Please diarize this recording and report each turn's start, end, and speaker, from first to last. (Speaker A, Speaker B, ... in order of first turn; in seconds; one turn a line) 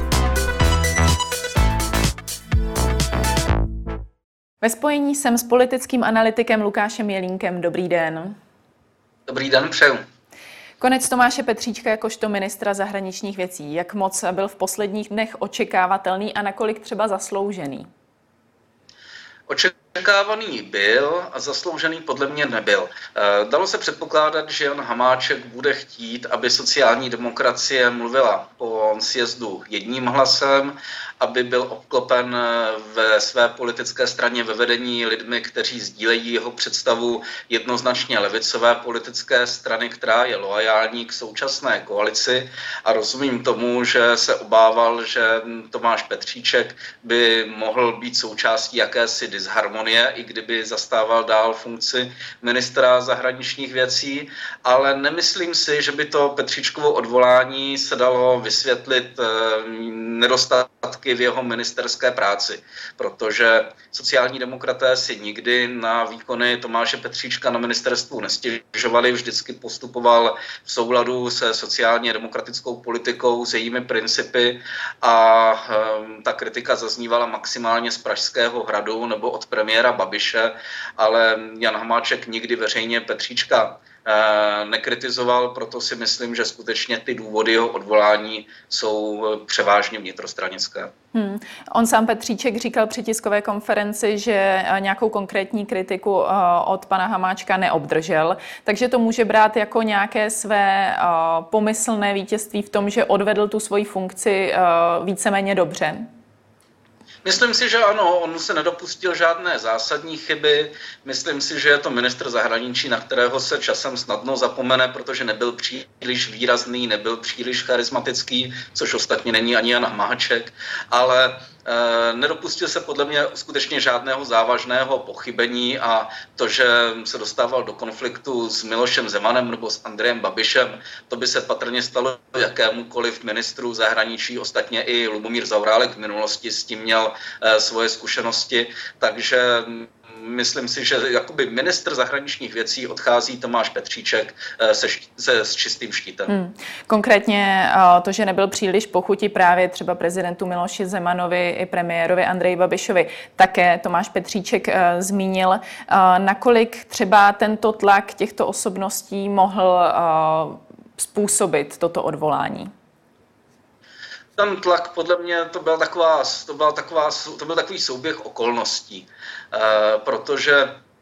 Speaker A: 4.6-8.4
Speaker B: 9.3-10.0
Speaker A: 10.8-17.9
Speaker B: 19.5-90.9
Speaker A: 91.1-106.1
Speaker B: 107.2-146.3
Speaker A: 146.3-162.7
Speaker B: 164.4-170.8